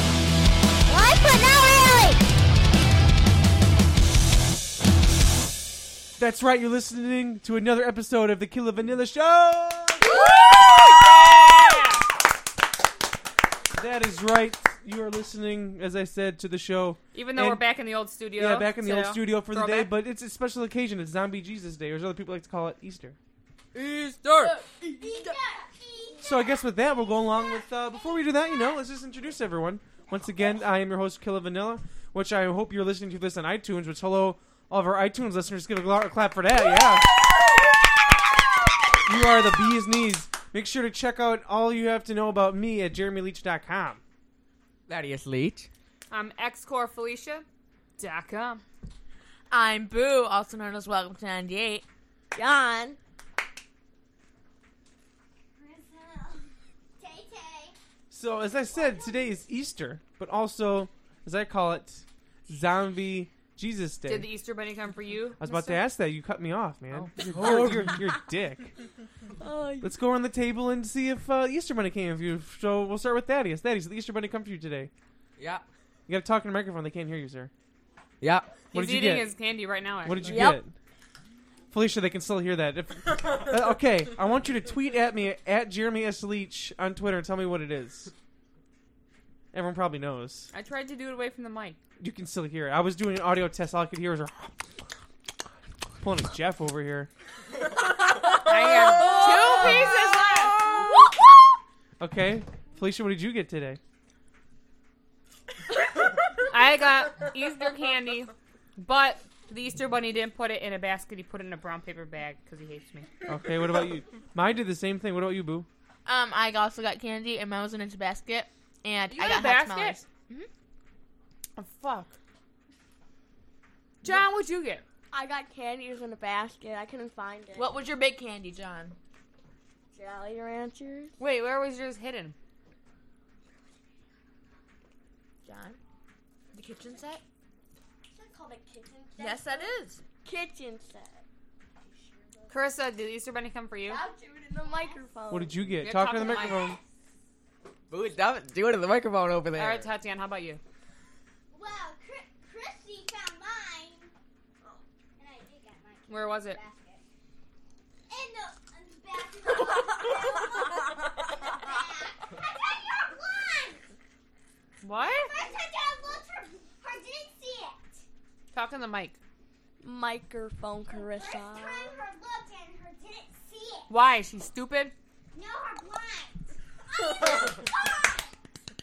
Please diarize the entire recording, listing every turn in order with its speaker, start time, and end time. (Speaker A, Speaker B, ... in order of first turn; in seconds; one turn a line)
Speaker A: 0.8-2.2
Speaker B: 6.2-10.1
Speaker C: 10.0-12.1
Speaker A: 10.1-10.5
Speaker B: 13.7-17.6
Speaker C: 17.1-19.9
Speaker B: 18.3-23.2
Speaker D: 23.7-25.4
Speaker A: 24.9-28.2
Speaker B: 26.2-37.3
Speaker B: 39.0-44.0
Speaker D: 44.9-45.7
Speaker C: 46.1-47.5
Speaker C: 48.0-48.6
Speaker E: 49.5-51.9
Speaker F: 52.3-53.0
Speaker A: 55.5-57.8
Speaker B: 58.1-64.3
Speaker C: 64.1-65.8
Speaker B: 65.4-68.7
Speaker D: 66.9-68.1
Speaker F: 69.4-70.0
Speaker B: 69.8-74.9
Speaker D: 75.4-75.6
Speaker B: 76.1-77.5
Speaker D: 78.2-78.6
Speaker B: 78.7-79.3
Speaker C: 78.7-80.5
Speaker B: 80.0-80.7
Speaker F: 80.2-80.6
Speaker B: 81.7-88.1
Speaker B: 89.5-90.5
Speaker C: 90.5-91.8
Speaker B: 92.0-94.9
Speaker B: 96.0-97.1
Speaker C: 98.3-100.6
Speaker F: 99.0-99.9
Speaker B: 102.0-103.8
Speaker C: 106.3-113.1
Speaker B: 113.2-115.7
Speaker E: 116.0-120.5
Speaker C: 119.1-120.0
Speaker C: 121.6-122.2
Speaker C: 124.0-124.8
Speaker F: 125.1-127.7
Speaker E: 127.5-129.0
Speaker F: 129.9-131.1
Speaker C: 131.2-132.3
Speaker E: 135.4-135.8
Speaker E: 136.5-137.2
Speaker A: 138.1-139.7
Speaker F: 138.8-139.3
Speaker E: 139.2-140.0
Speaker F: 140.2-141.2
Speaker C: 142.5-144.0
Speaker F: 143.9-145.7
Speaker A: 144.0-145.2
Speaker B: 145.3-146.8
Speaker C: 145.8-146.8
Speaker A: 146.3-146.8
Speaker D: 147.9-149.9
Speaker C: 149.5-150.6
Speaker A: 151.5-154.1
Speaker A: 155.2-157.0
Speaker C: 156.1-156.6
Speaker A: 158.1-163.9
Speaker C: 164.8-165.3
Speaker A: 165.0-168.0
Speaker C: 168.5-169.2
Speaker F: 169.8-172.0
Speaker A: 170.9-173.9
Speaker C: 173.9-174.9
Speaker A: 175.3-178.3